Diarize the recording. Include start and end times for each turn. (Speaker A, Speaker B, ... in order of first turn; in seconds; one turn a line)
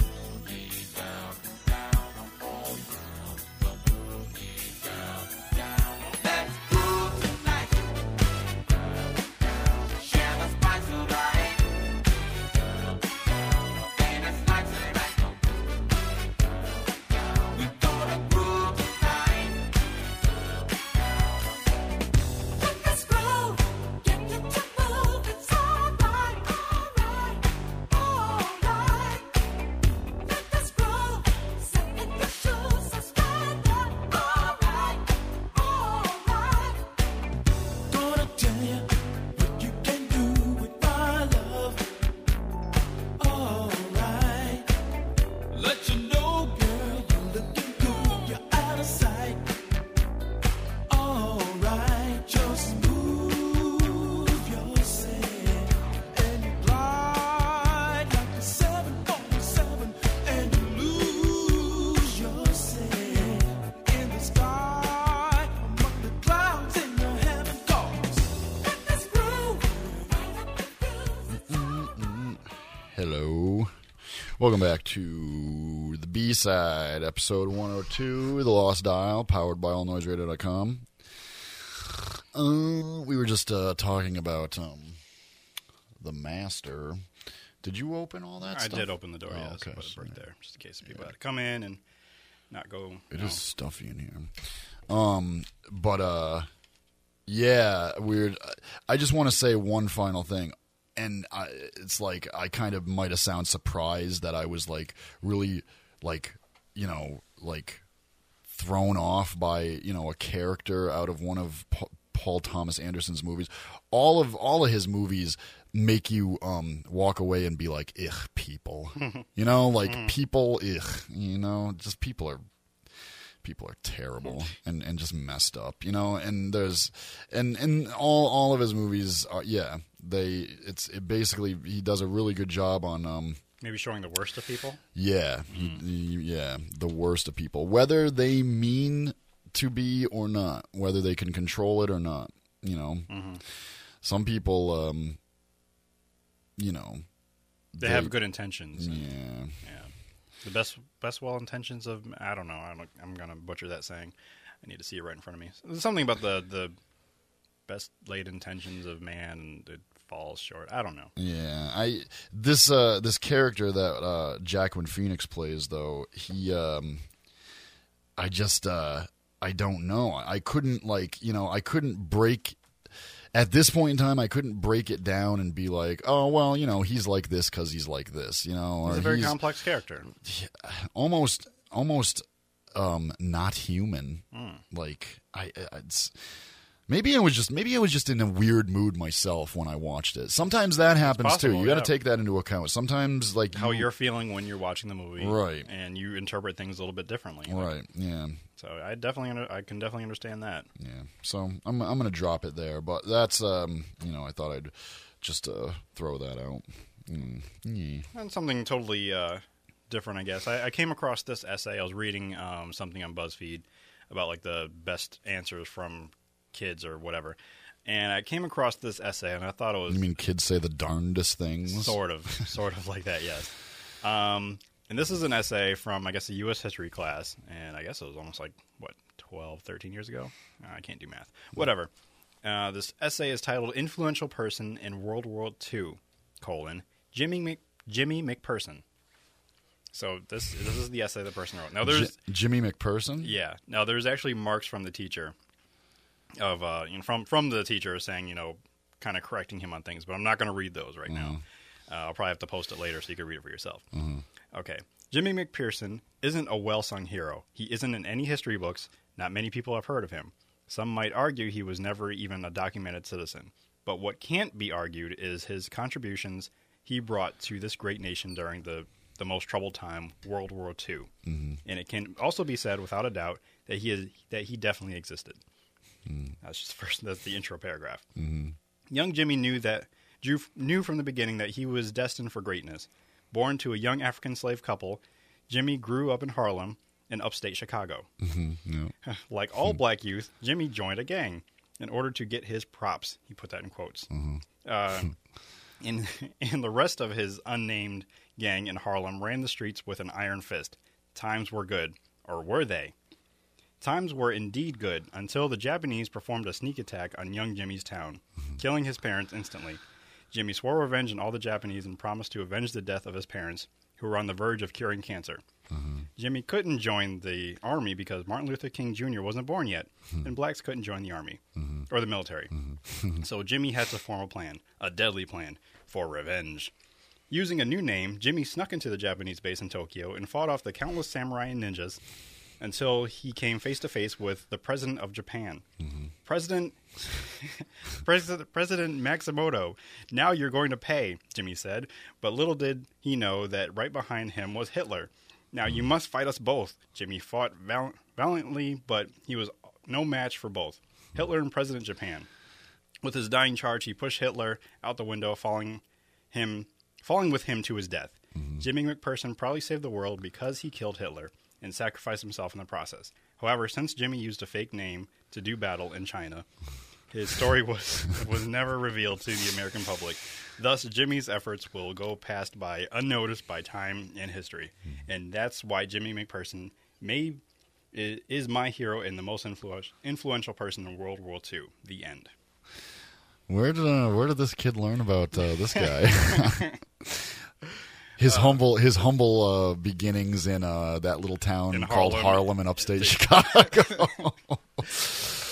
Speaker A: 6.2-7.8
Speaker A: 10.0-11.6
Speaker A: 13.9-15.1
Speaker A: 17.4-19.7
Speaker A: 22.6-29.4
Speaker A: 30.2-36.9
Speaker A: 37.9-41.9
Speaker A: 43.2-44.7
Speaker A: 45.5-49.5
Speaker A: 50.9-71.4
Speaker B: 71.3-73.7
Speaker B: 74.4-80.9
Speaker B: 81.8-85.0
Speaker B: 86.0-87.0
Speaker B: 87.6-90.2
Speaker C: 88.4-91.8
Speaker C: 92.5-93.4
Speaker B: 93.1-94.3
Speaker B: 94.9-96.5
Speaker B: 97.3-107.8
Speaker B: 108.5-122.4
Speaker C: 119.0-119.2
Speaker C: 119.8-120.2
Speaker B: 123.4-133.4
Speaker C: 133.6-134.8
Speaker B: 134.9-143.1
Speaker C: 135.5-135.8
Speaker C: 143.1-143.4
Speaker B: 144.0-145.2
Speaker B: 146.6-147.1
Speaker B: 147.7-148.2
Speaker C: 147.8-149.1
Speaker B: 148.7-149.6
Speaker C: 149.6-149.9
Speaker C: 150.4-156.8
Speaker C: 157.7-161.1
Speaker B: 161.2-167.1
Speaker B: 168.2-172.6
Speaker B: 173.3-179.4
Speaker C: 178.8-180.1
Speaker B: 180.1-186.2
Speaker C: 184.3-184.6
Speaker B: 186.9-193.9
Speaker C: 191.0-192.0
Speaker C: 193.5-197.7
Speaker B: 195.2-195.7
Speaker B: 197.5-198.4
Speaker C: 198.6-200.7
Speaker B: 200.8-208.1
Speaker C: 208.1-220.1
Speaker B: 219.9-222.0
Speaker C: 221.7-231.9
Speaker C: 232.4-238.8
Speaker C: 239.9-242.2
Speaker B: 241.8-243.4
Speaker C: 243.2-245.3
Speaker C: 246.4-253.8
Speaker B: 251.1-251.4
Speaker B: 253.9-254.2
Speaker C: 254.5-271.1
Speaker B: 271.2-271.6
Speaker C: 271.6-275.4
Speaker B: 276.1-276.4
Speaker C: 276.4-278.0
Speaker B: 278.2-278.6
Speaker C: 278.9-288.1
Speaker B: 288.2-288.9
Speaker C: 289.0-294.1
Speaker B: 294.1-294.4
Speaker C: 294.6-295.1
Speaker C: 295.8-302.9
Speaker C: 303.8-315.4
Speaker B: 315.7-316.1
Speaker C: 316.2-322.5
Speaker B: 321.6-321.9
Speaker B: 322.6-323.2
Speaker C: 323.2-326.7
Speaker C: 327.3-332.0
Speaker C: 332.6-335.6
Speaker B: 335.8-336.1
Speaker C: 336.3-336.8
Speaker C: 338.0-352.3
Speaker C: 353.0-366.5
Speaker B: 358.4-358.6
Speaker C: 367.1-377.4
Speaker C: 377.9-382.3
Speaker B: 383.5-387.3
Speaker C: 385.8-386.8
Speaker B: 388.2-395.2
Speaker C: 388.3-388.6
Speaker C: 391.7-394.3